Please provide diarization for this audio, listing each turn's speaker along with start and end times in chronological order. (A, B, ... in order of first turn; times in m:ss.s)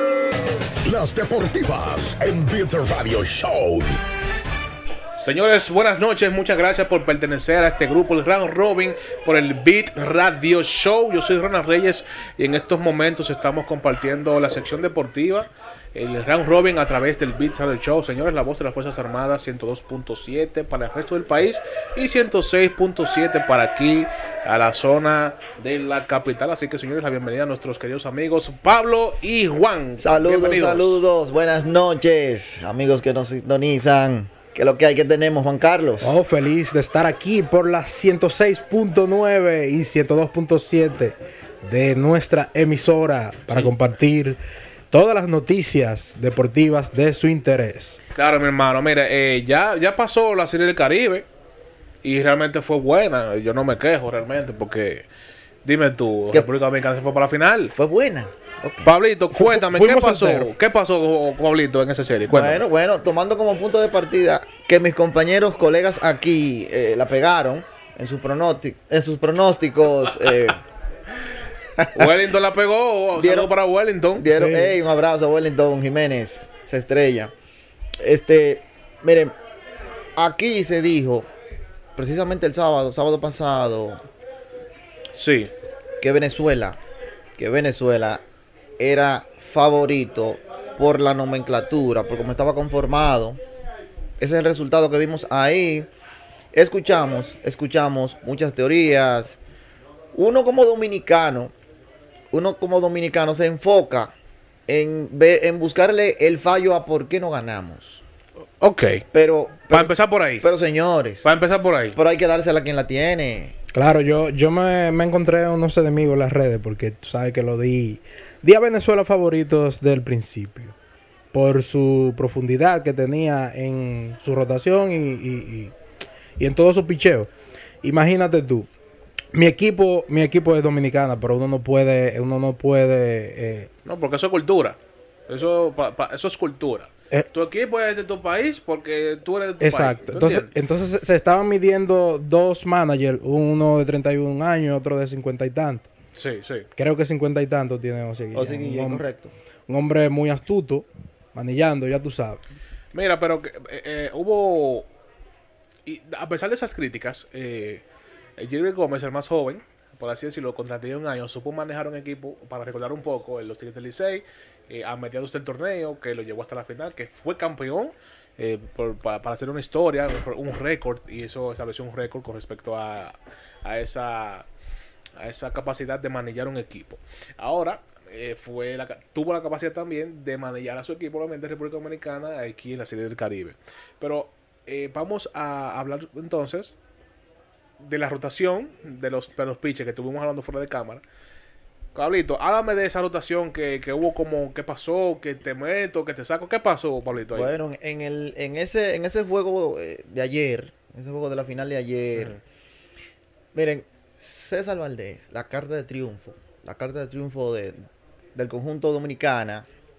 0:00.8-0:04.0 A
0:05.2-0:31.0 B
0:30.0-0:36.1 C
0:36.0-0:44.4 D
0:44.9-0:48.0 D
0:48.1-0:51.2 B
0:52.0-0:55.0 B
0:55.6-0:57.7 B
0:57.8-0:58.9 C
0:58.8-1:02.6 B
0:59.3-1:00.5 D
1:02.3-1:10.6 C
1:11.8-1:12.1 C
1:11.9-1:14.2 B
1:13.1-1:13.5 C
1:14.1-1:17.3 C
1:14.2-1:14.8 D
1:18.0-1:19.3 C
1:20.2-1:21.3 C
1:21.9-1:24.0 C
1:25.1-1:25.5 B
1:26.0-1:26.8 C
1:27.4-1:28.2 C
1:28.8-1:33.4 C
1:34.2-1:35.9 C
1:36.5-1:39.4 C
1:40.1-1:41.5 C
1:42.3-1:44.1 C
1:44.7-1:48.0 C
1:48.6-1:49.0 B
1:49.1-1:51.3 C
1:49.7-1:50.4 B
1:51.2-1:52.0 B
1:51.9-1:53.5 C
1:53.7-2:00.7 D
2:01.3-2:05.7 D
2:06.4-2:07.3 D
2:07.8-2:08.7 D
2:09.3-2:13.7 D
2:13.8-2:14.8 B
2:15.3-2:20.5 B
2:19.6-2:25.8 D
2:26.1-2:26.7 B
2:26.8-2:29.0 D
2:28.3-2:29.3 C
2:29.7-2:32.4 D
2:32.9-2:34.9 B
2:35.8-2:37.8 B
2:38.4-2:54.4 B
2:55.2-3:06.7 B
3:07.8-3:11.0 B
3:11.9-3:17.5 B
3:17.3-3:22.4 C
3:23.5-3:27.8 C
3:28.3-3:29.7 C